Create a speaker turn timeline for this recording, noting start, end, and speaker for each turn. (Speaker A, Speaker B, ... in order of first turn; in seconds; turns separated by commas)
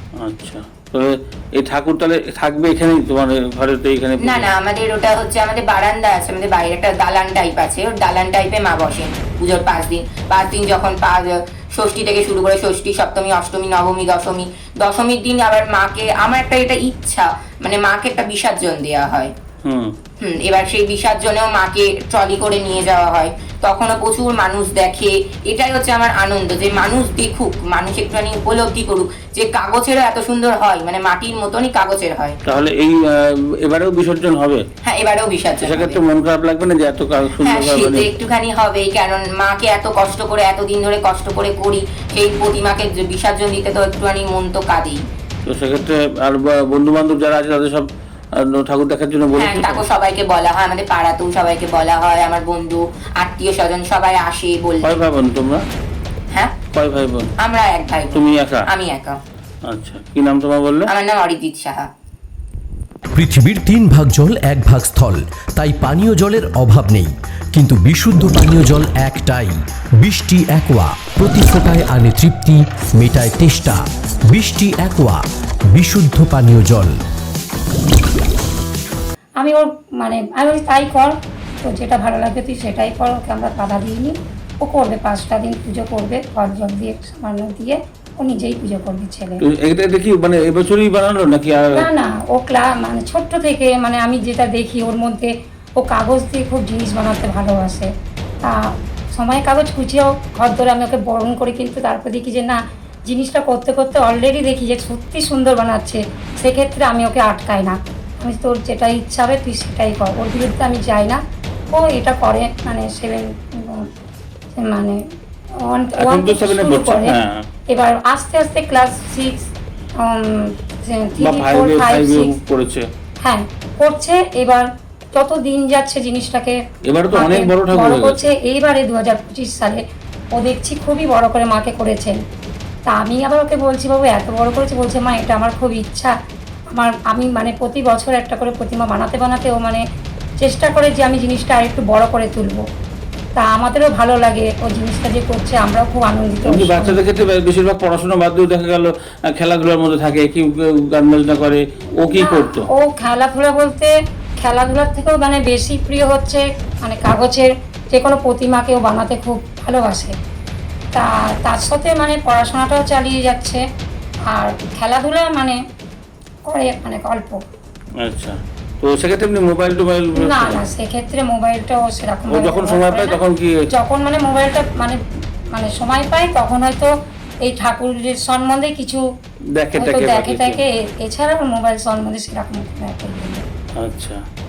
Speaker A: 0.2-4.5, Speaker B: 4.2-19.3, Speaker A: 19.6-19.9, Speaker B: 20.2-32.4, Speaker A: 32.5-34.6, Speaker B: 34.8-36.0, Speaker A: 35.6-38.1, Speaker B: 37.4-45.0, Speaker A: 45.4-47.9, Speaker A: 48.4-49.8, Speaker B: 49.4-54.9, Speaker A: 54.8-55.6, Speaker A: 56.7-57.3, Speaker B: 57.4-59.2, Speaker A: 58.1-58.6, Speaker A: 59.7-60.9, Speaker B: 60.9-61.9, Speaker C: 63.1-75.2, Speaker C: 75.7-77.0, Speaker D: 79.4-89.4, Speaker A: 89.4-91.9, Speaker D: 91.7-97.9, Speaker D: 99.1-111.2, Speaker D: 111.7-113.8, Speaker D: 114.5-115.0, Speaker D: 115.6-117.2, Speaker A: 116.0-117.5, Speaker D: 117.7-119.5, Speaker D: 120.0-122.3, Speaker A: 121.2-122.9, Speaker D: 123.2-126.6, Speaker A: 126.8-128.2, Speaker D: 127.1-129.8, Speaker D: 130.3-132.2, Speaker D: 132.8-136.1, Speaker D: 136.7-139.8, Speaker D: 140.4-142.6, Speaker D: 143.3-147.0, Speaker A: 146.4-152.7, Speaker D: 152.1-160.1, Speaker D: 160.9-163.6, Speaker D: 164.3-165.6, Speaker D: 166.5-167.4, Speaker A: 168.0-170.6, Speaker D: 170.1-175.0, Speaker A: 172.3-173.5, Speaker D: 175.5-176.9, Speaker D: 177.4-179.0, Speaker A: 179.6-180.6, Speaker D: 179.8-183.4, Speaker A: 183.8-184.2